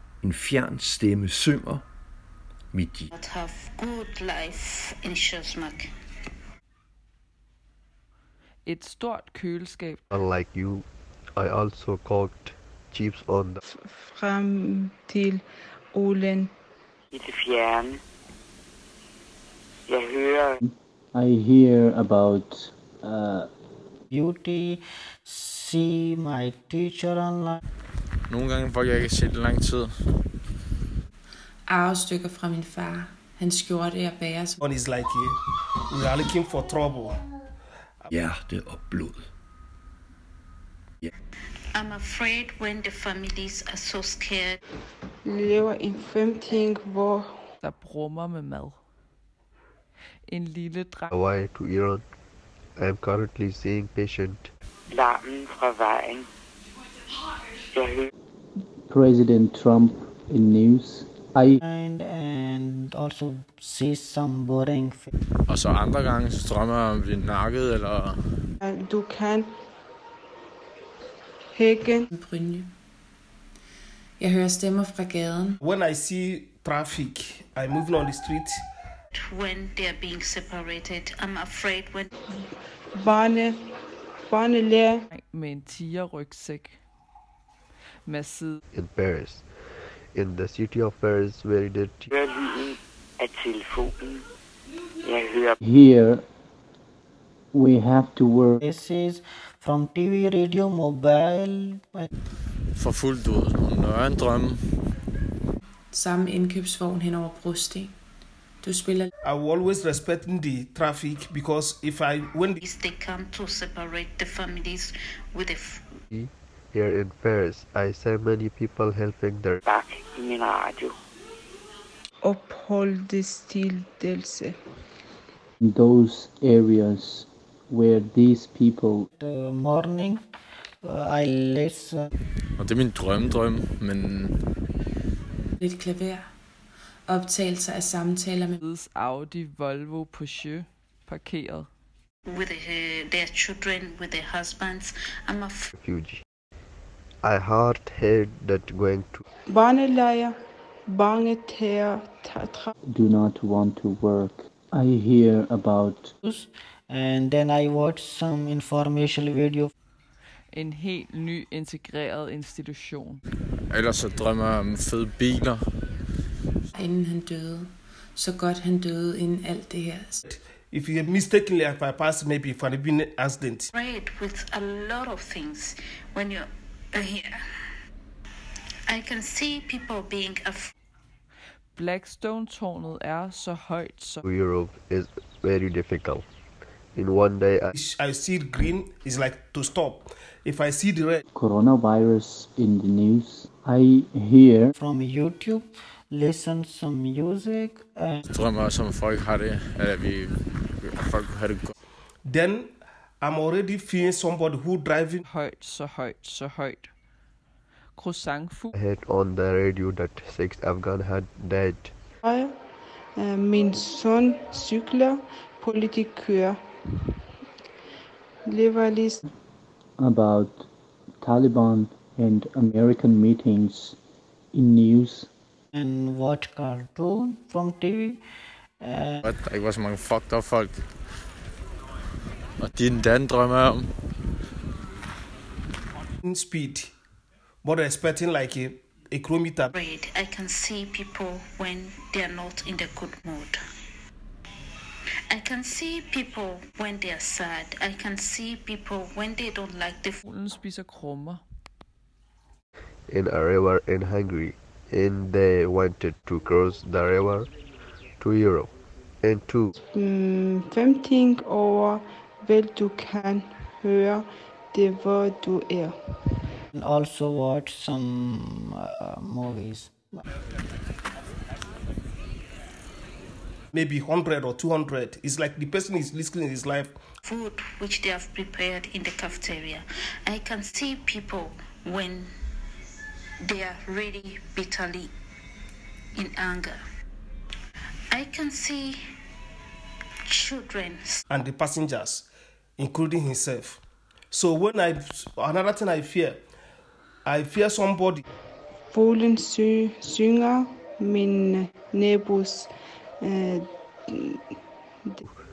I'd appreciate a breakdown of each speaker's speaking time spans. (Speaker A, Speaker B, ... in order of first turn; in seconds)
Speaker A: 0.2-1.8, 2.7-3.1, 38.1-39.3
Speaker B: 3.1-5.9, 41.7-44.6, 79.1-82.1, 112.6-115.8, 142.3-145.7, 173.7-177.4, 178.9-180.7, 239.7-243.6, 245.3-250.2, 277.2-282.3, 283.4-285.1, 286.1-286.8, 288.1-289.0, 290.3-291.2
Speaker C: 8.7-10.0, 47.6-48.8, 50.3-51.1, 85.1-86.8, 88.1-88.6, 138.6-141.7, 160.5-163.2, 181.8-184.2, 205.2-206.9, 208.0-208.7, 250.2-251.4
Speaker D: 10.1-13.6, 51.1-52.0, 52.8-54.5, 88.7-89.5, 90.1-92.1, 116.1-119.6, 145.8-146.2, 147.2-149.2, 184.2-186.3, 186.9-187.7, 208.8-211.9, 253.1-257.5, 258.2-259.7
Speaker E: 13.7-16.5, 45.2-47.5, 68.6-69.5, 71.5-72.1, 82.9-83.7, 84.2-85.1, 122.2-124.5, 149.5-152.7, 212.2-212.6, 213.2-217.2, 218.4-219.2, 259.8-266.4, 298.9-305.2
Speaker F: 17.1-18.0, 19.9-20.6, 54.9-56.3, 57.7-58.1, 92.1-94.2, 95.0-95.6, 119.7-121.0
Speaker G: 20.6-23.5, 58.9-61.6, 95.6-96.2, 97.5-98.6, 125.6-129.1, 152.8-156.1, 191.3-194.7, 220.0-220.7, 221.2-224.0, 224.5-225.3
Speaker H: 24.1-27.6, 61.6-65.1, 98.6-102.1, 129.2-130.2, 130.8-132.1, 156.2-159.7, 194.8-198.2, 225.7-228.2, 228.8-229.3, 266.7-270.2
Speaker I: 28.3-29.9, 65.5-68.5, 102.8-104.6, 132.6-134.4, 163.7-165.6, 198.3-200.3, 200.8-201.7, 229.2-230.8, 232.6-233.9
Speaker J: 31.7-34.6, 72.1-72.7, 74.2-75.6, 105.9-108.0, 108.6-109.1, 135.6-136.2, 137.1-138.6, 166.8-170.2
Speaker K: 34.6-35.4, 35.9-37.2, 75.6-78.6, 109.2-112.6, 170.2-173.7, 187.7-191.2, 202.2-205.2, 236.2-236.9, 237.6-239.7, 273.7-277.0, 291.3-296.4, 297.2-298.2